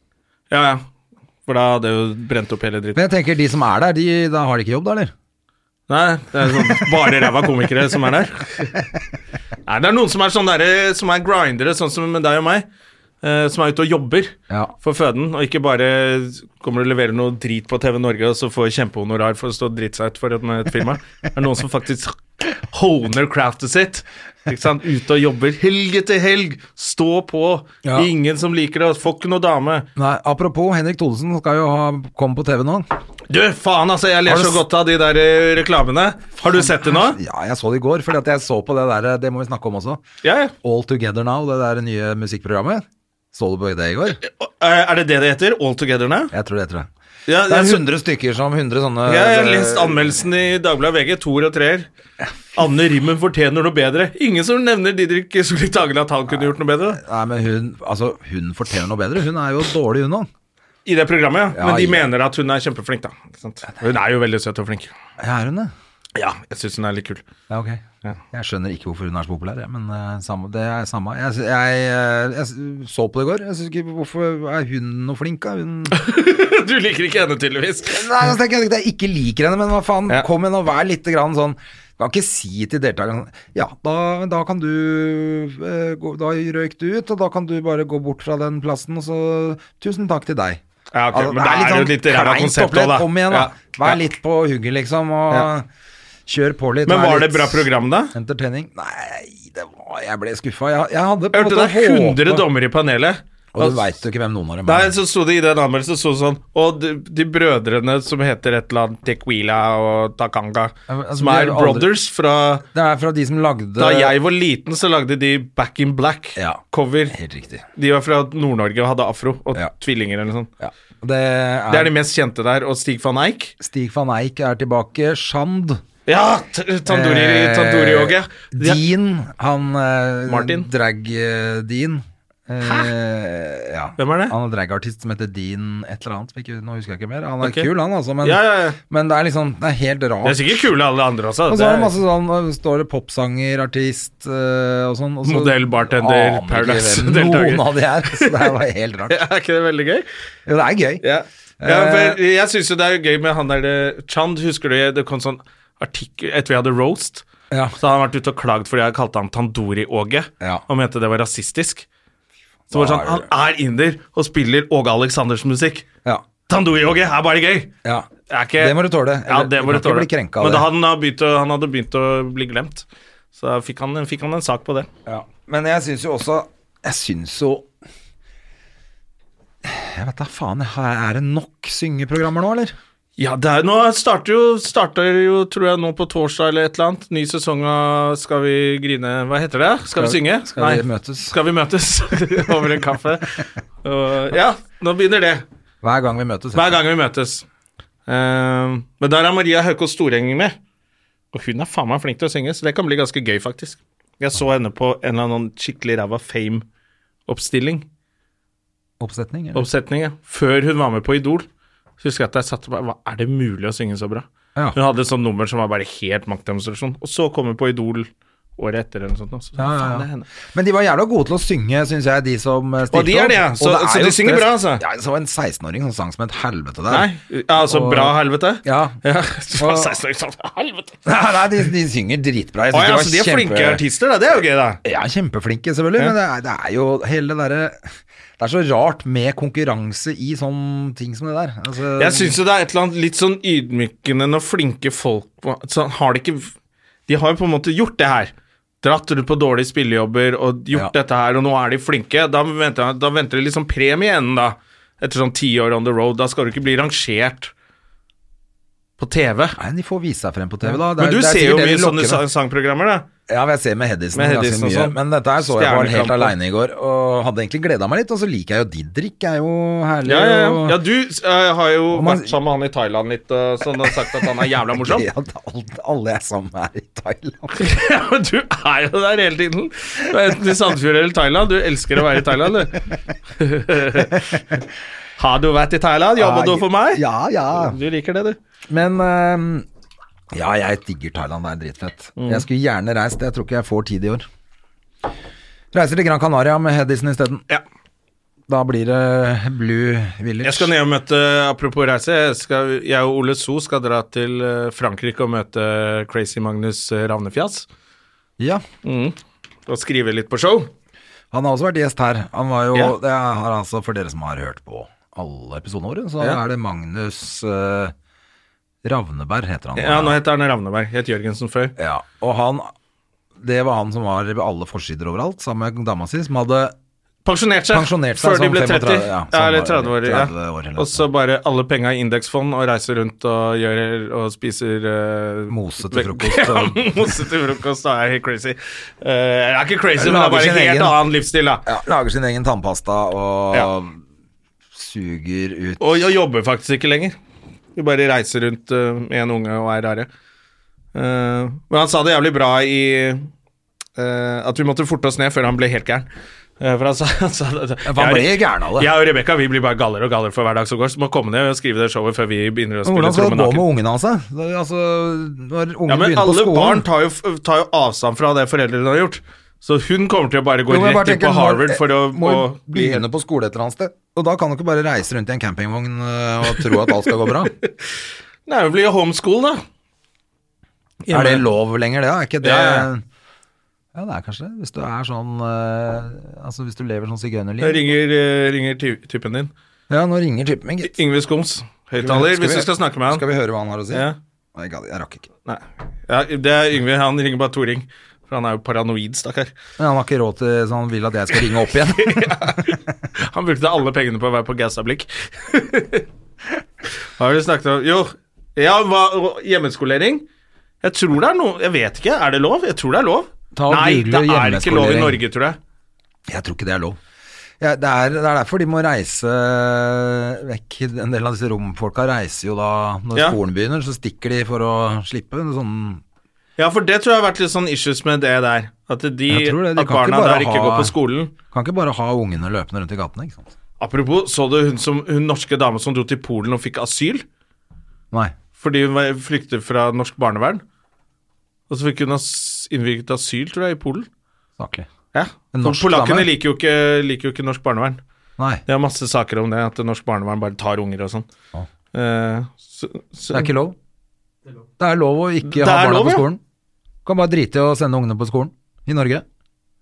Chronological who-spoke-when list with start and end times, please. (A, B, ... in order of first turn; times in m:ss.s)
0:00.5-0:00.8 A
0:01.5-0:03.0 A
0:03.0-0:05.1 B
0:05.9-0:08.8 A
0:06.4-0:07.3 B
0:09.7-0:12.7 A
0:13.2-0:29.9 A
0:27.8-0:28.1 B
0:30.0-0:32.9 B
0:33.3-0:37.2 A
0:34.2-0:34.6 B
0:36.4-0:40.0 B
0:40.2-0:40.5 A
0:40.6-0:44.2 B
0:44.2-0:46.3 A
0:46.3-0:46.9 B
0:47.3-0:47.8 A
0:47.4-0:50.2 B
0:49.1-0:51.9 A
0:52.6-0:57.0 A
0:56.3-1:00.3 B
1:00.9-1:04.9 A
1:01.5-1:02.1 B
1:05.2-1:05.7 B
1:06.2-1:07.2 A
1:07.5-1:16.0 B
1:15.9-1:18.3 A
1:17.9-1:35.7 B
1:30.9-1:34.0 A
1:36.3-1:42.5 B
1:36.9-1:38.1 A
1:41.3-1:43.8 A
1:43.5-1:45.0 B
1:44.7-1:52.6 A
1:50.9-1:51.9 B
1:52.7-1:54.2 B
1:53.8-1:57.2 A
1:56.4-1:57.6 B
1:57.8-2:00.5 A
2:00.6-2:01.9 B
2:01.7-2:03.5 A
2:03.6-2:05.8 B
2:06.1-2:08.8 A
2:06.9-2:20.6 B
2:10.3-2:10.7 A
2:12.6-2:12.9 A
2:14.0-2:14.4 A
2:17.4-2:17.7 A
2:18.2-2:18.8 A
2:20.2-2:21.9 A
2:21.5-2:29.2 B
2:25.2-2:28.5 A
2:29.1-2:30.1 A
2:30.5-2:31.0 B
2:31.0-2:37.3 A
2:31.6-2:32.2 B
2:37.5-2:37.8 B
2:37.8-2:41.9 A
2:42.7-2:43.3 B
2:42.7-2:45.9 A
2:46.5-2:47.7 A
2:47.8-2:50.7 B
2:48.3-2:54.9 A
2:55.1-2:57.7 B
2:59.6-3:02.7 B
3:03.2-3:15.4 A
3:09.9-3:11.4 B
3:15.8-3:16.8 B
3:16.6-3:17.5 A
3:18.1-3:20.6 A
3:21.3-3:26.6 A
3:27.3-3:27.9 A
3:29.0-3:29.7 B
3:29.5-3:31.5 A
3:32.0-3:40.3 A
3:39.6-3:49.0 B
3:42.9-3:44.8 A
3:46.9-3:51.0 A
3:49.6-3:50.0 B
3:51.1-3:53.8 B
3:52.7-3:54.8 A
3:54.8-4:02.4 B
4:02.0-4:06.5 A
4:07.1-4:17.5 A
4:19.0-4:19.6 A
4:19.6-4:22.2 B
4:20.6-4:23.1 A
4:23.3-4:30.8 B
4:24.1-4:26.3 A
4:30.0-4:35.1 A
4:31.9-4:32.4 B
4:34.1-4:37.6 B
4:37.6-4:42.8 A
4:43.4-4:44.4 A
4:43.9-4:44.6 B
4:45.2-4:48.4 A
4:46.2-4:47.8 B
4:48.7-4:49.7 B
4:50.3-4:54.2 B
4:52.2-4:52.4 A
4:55.7-4:57.4 B
4:58.5-5:00.7 B
5:00.4-5:07.7 A
5:08.4-5:08.6 B
5:08.8-5:10.7 A
5:11.3-5:17.9 B
5:18.8-5:20.2 B
5:19.8-5:21.8 A
5:21.8-5:22.7 B
5:23.4-5:26.8 B
5:27.2-5:41.6 A
5:27.7-5:31.0 B
5:35.5-5:36.9 B
5:40.0-5:41.0 B
5:41.6-5:44.0 B
5:44.7-5:46.1 B
5:45.8-5:47.2 A
5:47.8-5:50.1 A
5:50.9-5:53.3 A
5:54.0-5:56.1 A
5:56.6-6:03.7 A
5:57.8-5:58.9 B
6:02.8-6:06.8 B
6:05.9-6:13.0 A
6:10.7-6:17.5 B
6:18.5-6:19.6 A
6:21.0-6:21.5 A
6:21.1-6:23.0 B
6:22.4-6:22.9 A
6:23.9-6:27.9 B
6:27.6-6:29.5 A
6:29.9-6:31.0 B
6:30.8-6:33.2 A
6:32.0-6:35.3 B
6:33.9-6:34.2 A
6:35.5-6:39.5 A
6:39.8-6:42.8 B
6:41.7-6:46.1 A
6:47.2-6:50.2 A
6:50.8-6:55.6 A
6:53.5-6:55.2 B
6:56.3-6:57.0 B
6:57.6-7:06.0 B
7:06.6-7:11.3 A
7:09.3-7:11.0 B
7:11.5-7:13.5 B
7:13.8-7:17.2 A
7:18.6-7:20.6 A
7:21.7-7:24.1 A
7:24.6-7:24.9 B
7:25.1-7:28.0 A
7:25.5-7:26.3 B
7:28.4-7:28.6 B
7:28.7-7:31.3 A
7:31.9-7:33.5 A
7:33.3-7:33.8 B
7:34.8-7:36.4 B
7:35.4-7:36.3 A
7:37.0-7:39.2 B